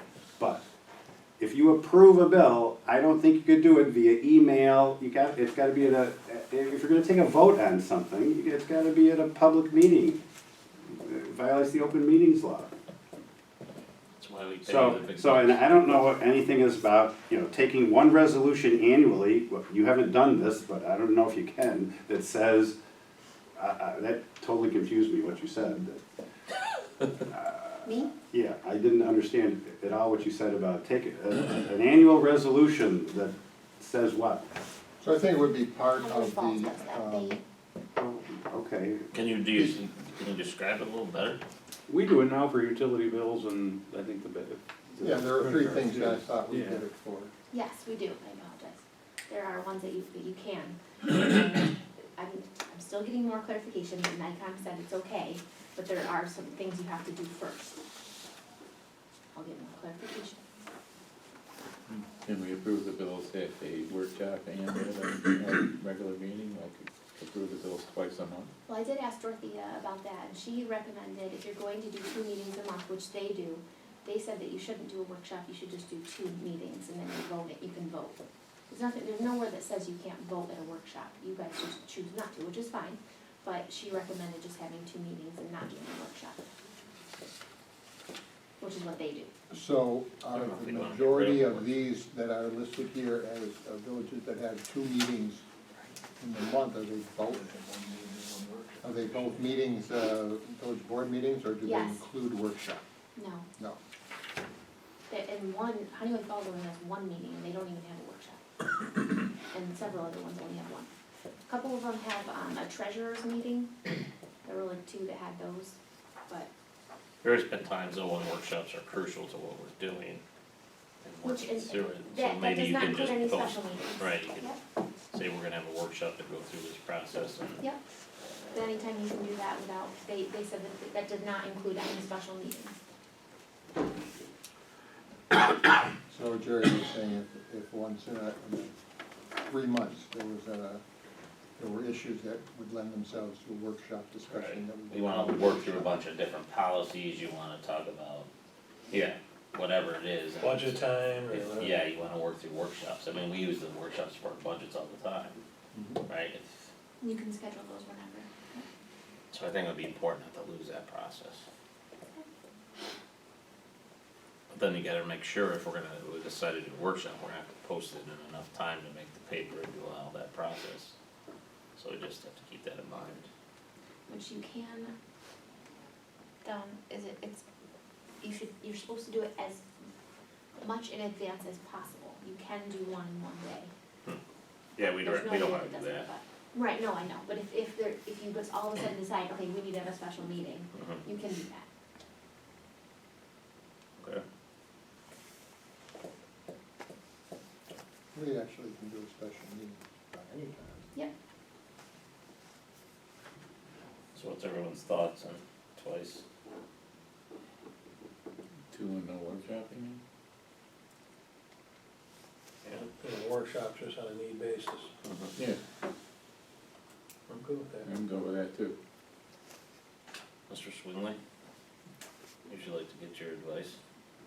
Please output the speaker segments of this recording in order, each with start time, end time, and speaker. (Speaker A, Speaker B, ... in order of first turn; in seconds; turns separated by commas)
Speaker A: 0.4-0.7, Speaker A: 1.4-10.2, Speaker A: 10.9-12.7, Speaker B: 14.2-16.0, Speaker A: 14.7-22.8, Speaker A: 23.6-26.0, Speaker A: 27.3-34.5, Speaker C: 27.9-28.1, Speaker D: 35.0-37.4, Speaker C: 36.0-37.4, Speaker A: 38.0-39.1, Speaker B: 39.1-41.4, Speaker E: 41.9-46.8, Speaker D: 45.0-47.3, Speaker C: 47.5-57.8, Speaker C: 59.3-60.4, Speaker F: 61.9-68.5, Speaker C: 68.7-86.4, Speaker C: 88.6-89.3, Speaker D: 89.5-95.4, Speaker B: 90.3-91.7, Speaker D: 96.2-97.5, Speaker G: 97.3-99.4, Speaker D: 98.8-102.8, Speaker C: 101.6-102.1, Speaker C: 103.2-103.5, Speaker C: 105.1-108.4, Speaker C: 109.5-110.9, Speaker C: 111.5-113.7, Speaker C: 114.5-115.8, Speaker B: 117.2-120.2, Speaker B: 121.0-124.5, Speaker C: 121.2-124.6, Speaker B: 125.1-127.6, Speaker C: 128.5-132.8, Speaker D: 136.1-138.7, Speaker D: 139.5-140.8, Speaker D: 141.6-145.9, Speaker B: 144.3-148.3, Speaker B: 148.9-155.4, Speaker G: 150.4-151.8, Speaker G: 155.8-156.0, Speaker B: 156.1-156.5, Speaker C: 157.0-158.7, Speaker B: 159.3-161.4, Speaker B: 164.5-170.9, Speaker B: 171.8-173.3, Speaker C: 174.1-174.9, Speaker C: 176.4-177.4, Speaker C: 178.2-179.7, Speaker C: 180.6-183.7, Speaker B: 184.8-186.1, Speaker C: 185.0-191.7, Speaker B: 190.7-191.0, Speaker B: 194.0-194.2, Speaker D: 198.1-200.9, Speaker B: 204.1-206.2, Speaker F: 208.7-210.0, Speaker G: 212.7-214.9, Speaker B: 215.0-215.3, Speaker G: 217.3-217.9, Speaker F: 217.8-218.8, Speaker B: 220.5-221.2, Speaker B: 222.5-223.8